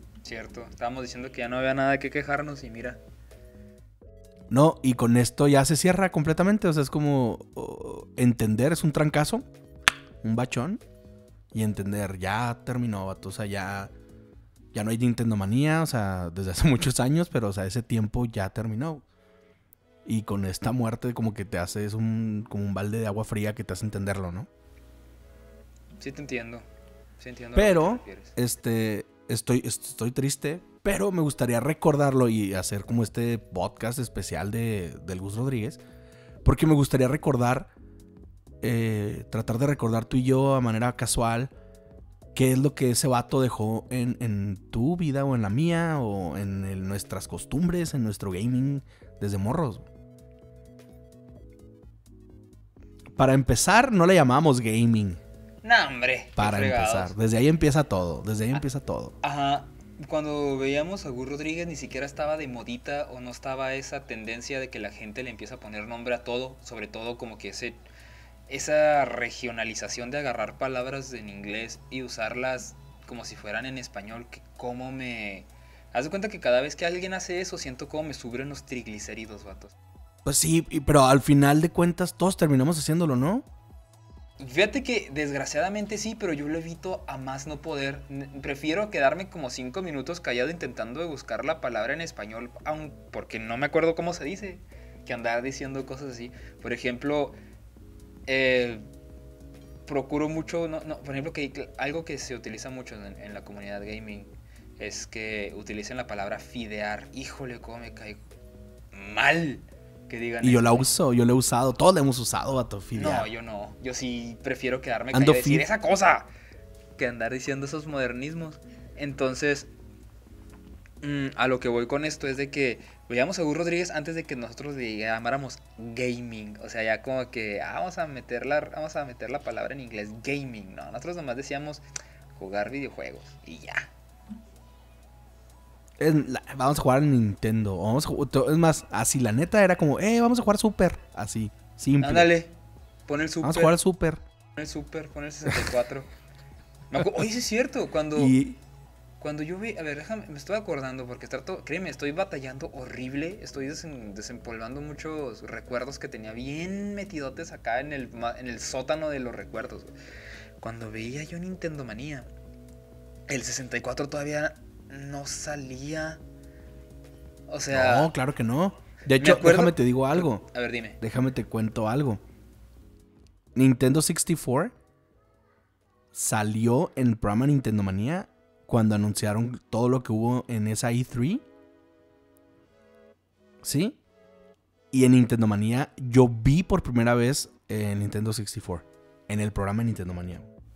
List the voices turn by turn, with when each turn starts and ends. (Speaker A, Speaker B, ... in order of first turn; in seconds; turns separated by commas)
Speaker A: 0.2-3.0, Speaker B: 4.5-9.5, Speaker B: 10.2-10.8, Speaker B: 11.5-13.9, Speaker B: 14.7-19.0, Speaker B: 20.1-24.5, Speaker A: 26.0-26.7, Speaker A: 27.2-28.4, Speaker B: 27.6-35.8, Speaker B: 36.4-37.7, Speaker B: 38.6-41.5, Speaker B: 42.3-49.9, Speaker B: 53.2-55.2, Speaker A: 55.6-57.1, Speaker B: 56.4-59.1, Speaker A: 59.2-67.8, Speaker A: 68.5-79.7, Speaker B: 80.2-83.5, Speaker A: 84.4-97.4, Speaker A: 98.3-98.8, Speaker A: 99.9-108.2, Speaker A: 108.9-110.9, Speaker B: 110.4-113.3, Speaker A: 112.9-116.3, Speaker B: 115.1-115.7, Speaker A: 117.0-119.7, Speaker A: 121.0-131.8, Speaker A: 132.4-133.9, Speaker B: 136.0-142.3, Speaker A: 142.0-142.5, Speaker A: 143.1-143.8, Speaker B: 143.4-144.2, Speaker A: 144.6-146.1, Speaker A: 146.9-148.4, Speaker B: 148.2-148.6, Speaker A: 149.2-159.9, Speaker A: 160.6-162.3, Speaker A: 163.3-166.2, Speaker A: 167.5-168.1, Speaker B: 167.7-170.5, Speaker A: 169.2-171.0, Speaker B: 171.0-172.2, Speaker B: 173.6-174.7, Speaker B: 176.1-181.4, Speaker B: 183.6-184.0, Speaker B: 184.9-190.5